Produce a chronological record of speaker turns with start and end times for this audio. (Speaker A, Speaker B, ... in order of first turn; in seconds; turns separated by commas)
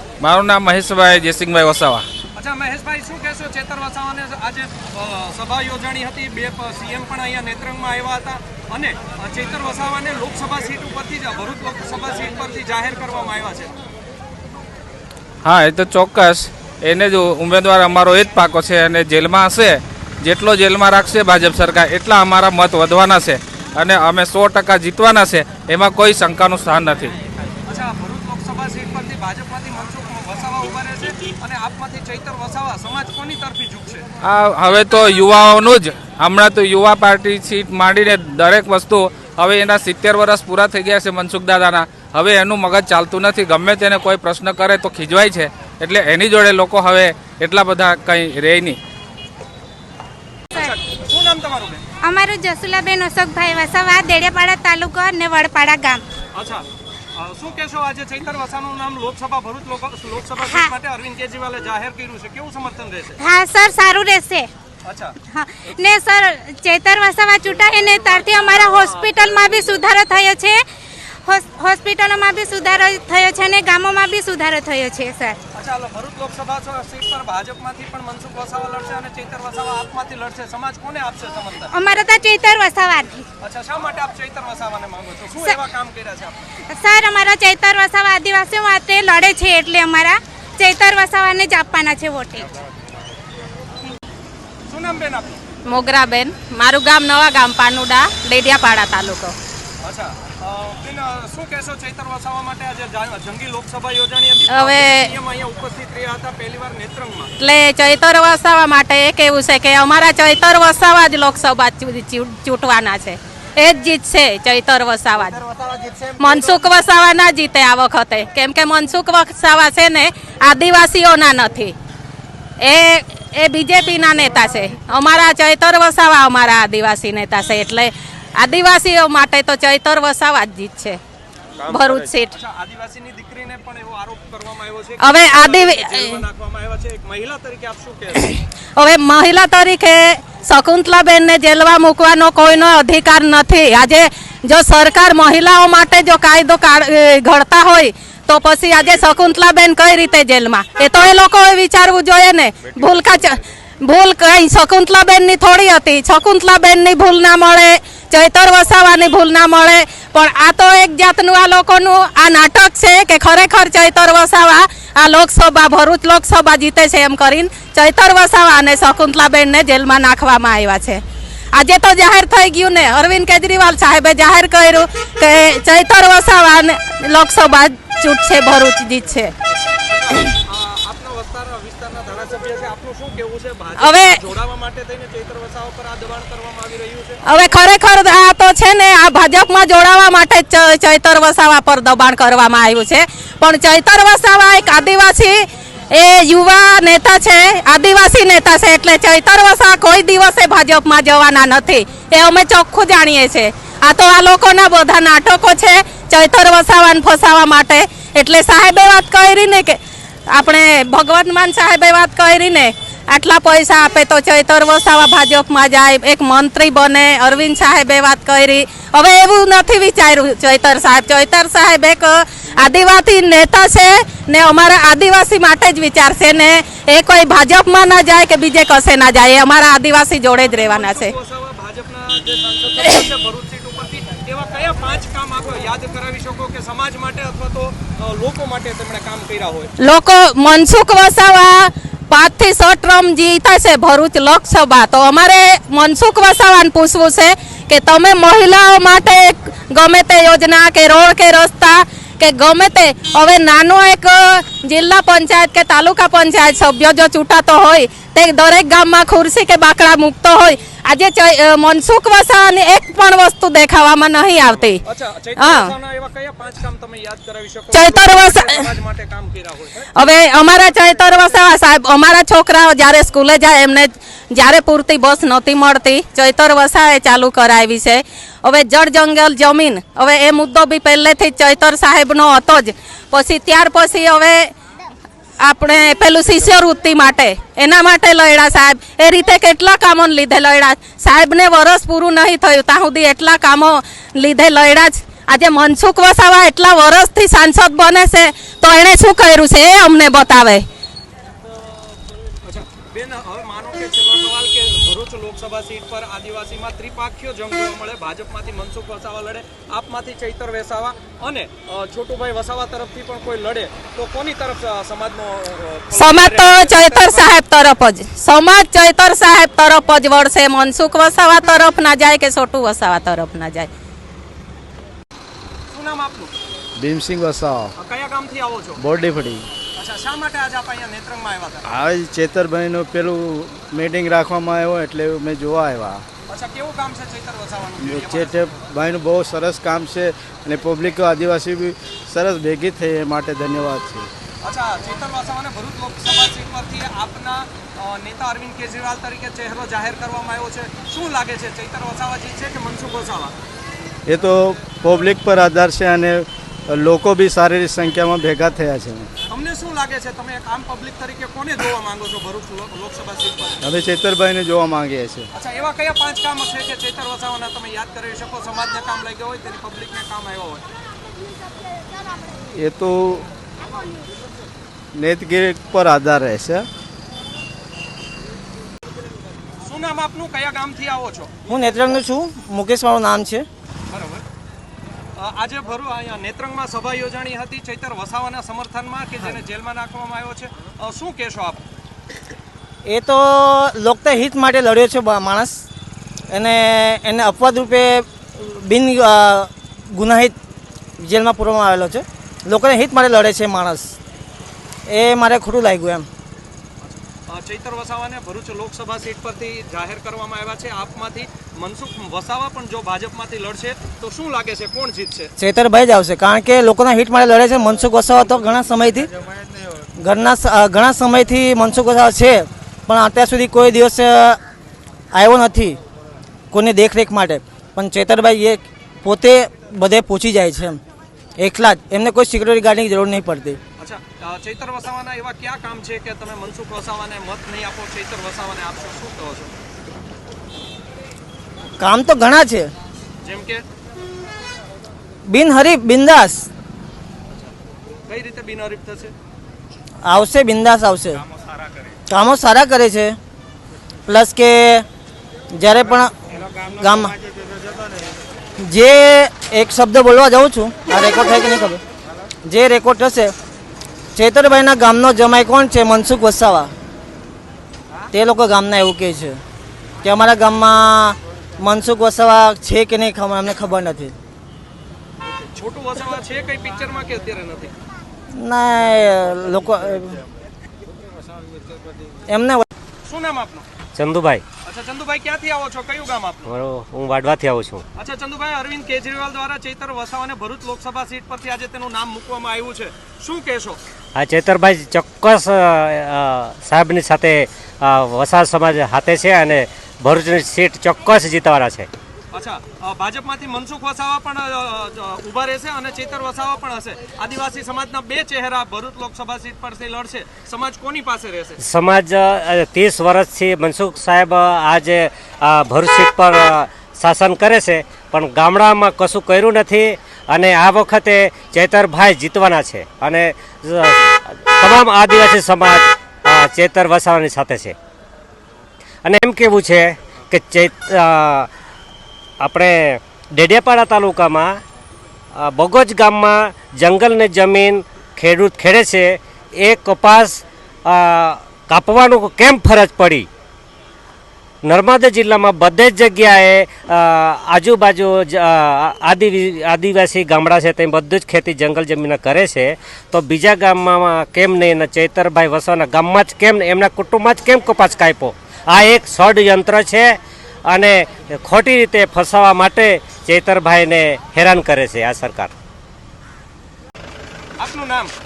Speaker A: 0.2-2.1, Speaker B: 2.4-13.7, Speaker A: 15.4-27.1, Speaker B: 27.7-34.0, Speaker A: 34.2-48.8, Speaker B: 50.5-51.8, Speaker C: 52.0-56.0, Speaker B: 56.3-56.6, Speaker B: 57.2-63.2, Speaker C: 60.4-60.7, Speaker C: 63.2-64.5, Speaker B: 64.8-65.2, Speaker C: 65.3-70.6, Speaker B: 68.0-69.8, Speaker C: 71.3-75.4, Speaker B: 75.5-81.8, Speaker C: 81.7-83.1, Speaker B: 83.4-86.5, Speaker C: 86.7-92.5, Speaker B: 94.7-95.4, Speaker D: 95.7-99.3, Speaker B: 99.8-107.3, Speaker D: 104.5-105.1, Speaker D: 107.4-115.4, Speaker B: 115.5-116.0, Speaker D: 116.2-121.7, Speaker D: 122.6-131.0, Speaker A: 131.7-132.0, Speaker D: 131.7-132.3, Speaker B: 132.3-138.3, Speaker D: 135.0-136.2, Speaker D: 138.2-171.0, Speaker D: 171.5-179.3, Speaker B: 179.6-187.2, Speaker D: 183.8-184.2, Speaker D: 187.3-195.4, Speaker D: 195.9-209.8, Speaker D: 210.3-231.1, Speaker B: 230.4-239.7, Speaker D: 239.8-264.8, Speaker B: 264.8-269.9, Speaker D: 265.4-265.7, Speaker D: 267.7-268.5, Speaker D: 269.9-284.5, Speaker B: 270.5-271.4, Speaker D: 285.4-300.6, Speaker B: 302.4-317.3, Speaker D: 316.0-323.7, Speaker B: 325.7-326.3, Speaker E: 326.8-327.7, Speaker B: 327.8-328.8, Speaker E: 328.8-329.5, Speaker B: 329.8-331.6, Speaker E: 331.7-336.0, Speaker B: 336.3-338.7, Speaker E: 337.8-344.1, Speaker B: 344.4-353.3, Speaker E: 354.1-359.1, Speaker B: 359.3-363.6, Speaker E: 363.6-365.3, Speaker B: 365.3-370.6, Speaker E: 372.6-373.3, Speaker E: 374.9-376.7, Speaker B: 379.6-381.3, Speaker F: 381.5-383.5, Speaker B: 383.9-384.2, Speaker B: 385.2-391.6, Speaker F: 392.9-395.6, Speaker F: 396.3-400.3, Speaker F: 401.0-403.9, Speaker F: 404.9-406.1, Speaker B: 406.8-415.3, Speaker F: 415.4-419.1, Speaker F: 420.0-424.4, Speaker F: 425.1-425.8, Speaker F: 426.5-430.8, Speaker F: 431.4-433.6, Speaker B: 433.8-439.5, Speaker F: 441.8-442.7, Speaker B: 443.2-443.6, Speaker F: 445.3-446.5, Speaker B: 448.1-449.1, Speaker F: 450.0-451.2, Speaker F: 452.1-453.2, Speaker F: 454.1-454.9, Speaker F: 455.5-457.2, Speaker F: 458.6-461.8, Speaker F: 462.4-463.3, Speaker F: 464.1-466.7, Speaker F: 468.1-469.4, Speaker F: 470.0-474.1, Speaker B: 475.2-477.7, Speaker F: 478.4-480.2, Speaker F: 482.3-482.7, Speaker B: 483.0-483.7, Speaker G: 483.9-484.4, Speaker B: 484.6-486.5, Speaker G: 486.5-487.8, Speaker B: 488.0-493.8, Speaker G: 494.2-501.9, Speaker B: 502.3-511.6, Speaker G: 511.6-527.8, Speaker G: 529.0-531.5, Speaker G: 532.4-534.6, Speaker G: 535.4-543.3, Speaker G: 544.6-565.5, Speaker B: 567.6-568.1